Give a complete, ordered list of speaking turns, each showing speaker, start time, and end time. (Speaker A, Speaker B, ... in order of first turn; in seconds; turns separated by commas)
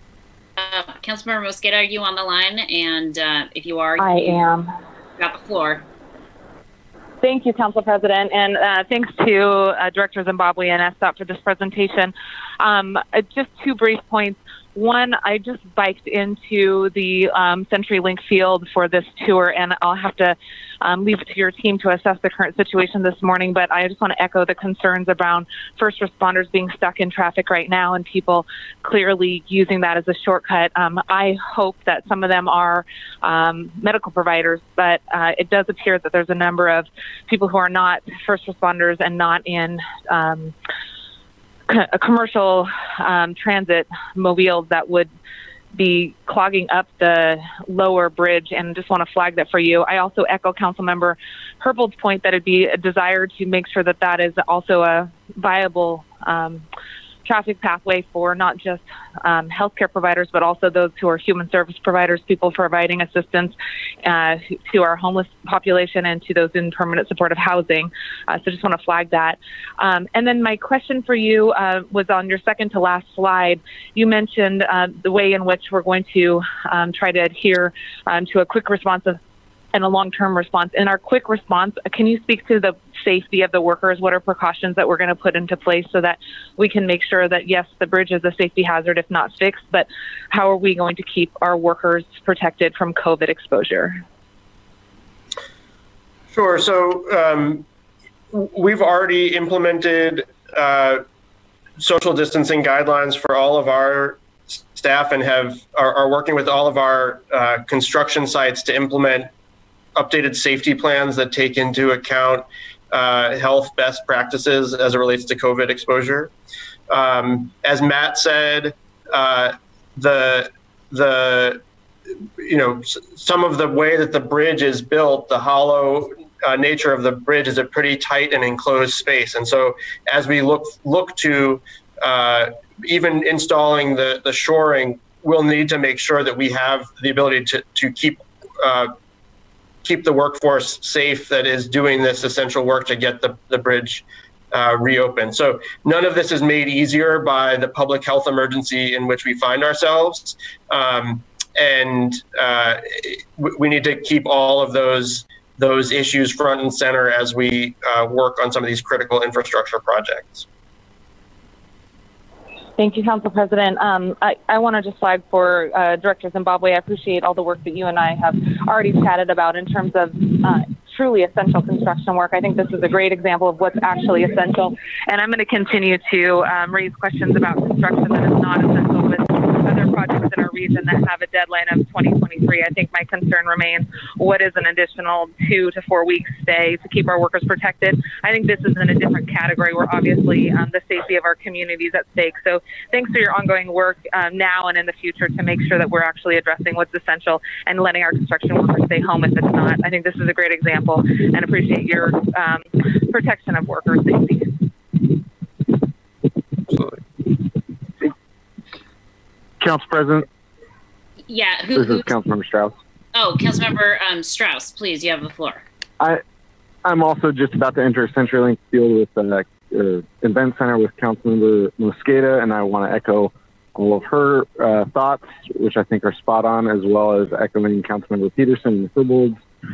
Speaker A: 0.6-4.4, Speaker B: 4.0-4.7, Speaker A: 5.2-5.8, Speaker B: 7.2-40.5, Speaker B: 41.7-45.1, Speaker B: 45.7-56.6, Speaker B: 57.2-79.2, Speaker B: 79.7-94.0, Speaker C: 96.3-97.7, Speaker C: 98.3-101.0, Speaker C: 101.8-109.3, Speaker C: 109.9-116.3, Speaker C: 116.9-121.6, Speaker C: 122.4-138.9, Speaker C: 139.8-160.4, Speaker B: 162.8-204.6, Speaker D: 209.6-210.3, Speaker A: 211.3-212.1, Speaker D: 211.7-212.7, Speaker A: 213.1-215.6, Speaker D: 216.8-229.4